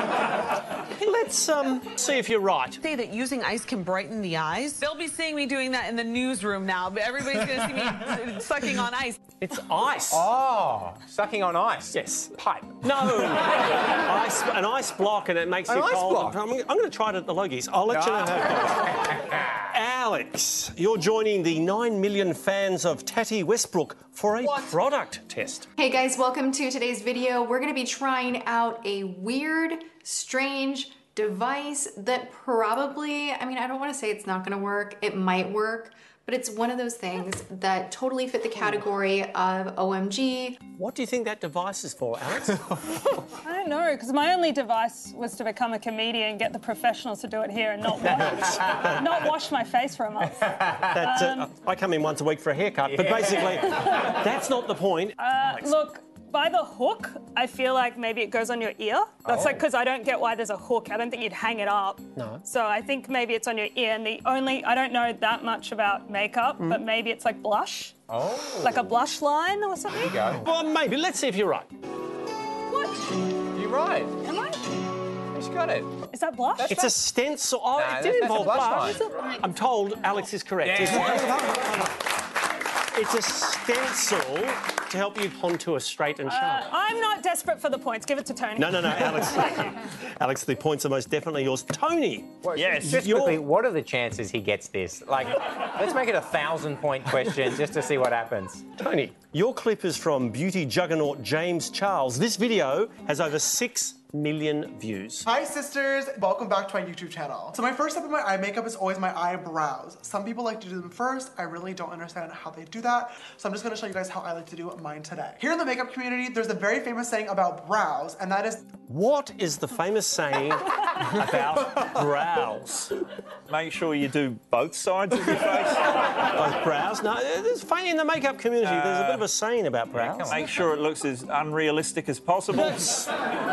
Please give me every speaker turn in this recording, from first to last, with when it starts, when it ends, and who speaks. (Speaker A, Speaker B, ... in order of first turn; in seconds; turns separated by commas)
Speaker A: 1.0-2.8, Speaker B: 2.8-9.2, Speaker A: 9.4-10.3, Speaker C: 10.1-12.8, Speaker A: 11.9-12.3, Speaker A: 12.8-19.0, Speaker C: 15.7-16.4, Speaker C: 17.9-19.5, Speaker A: 19.7-25.7, Speaker D: 25.8-40.6, Speaker A: 40.8-43.0, Speaker E: 43.4-51.5, Speaker A: 48.0-49.3, Speaker A: 50.9-55.8, Speaker C: 52.9-53.7, Speaker E: 55.2-67.9, Speaker C: 59.3-59.6, Speaker A: 62.2-62.4, Speaker C: 68.1-68.8, Speaker E: 68.6-70.2, Speaker C: 70.0-70.5, Speaker A: 70.4-71.7, Speaker C: 73.5-74.1, Speaker E: 74.2-74.6, Speaker C: 75.3-75.9, Speaker E: 76.1-76.9, Speaker C: 76.6-76.9, Speaker A: 76.7-82.0, Speaker C: 77.8-79.0, Speaker C: 80.6-81.5, Speaker A: 82.9-86.7, Speaker E: 86.3-89.6, Speaker A: 88.6-93.4, Speaker C: 92.5-98.7, Speaker F: 92.5-93.1, Speaker A: 98.8-105.2, Speaker G: 105.3-118.6, Speaker A: 118.8-122.9, Speaker F: 123.5-125.9, Speaker A: 126.4-130.4, Speaker F: 128.6-129.2, Speaker C: 130.0-130.4, Speaker F: 130.2-133.1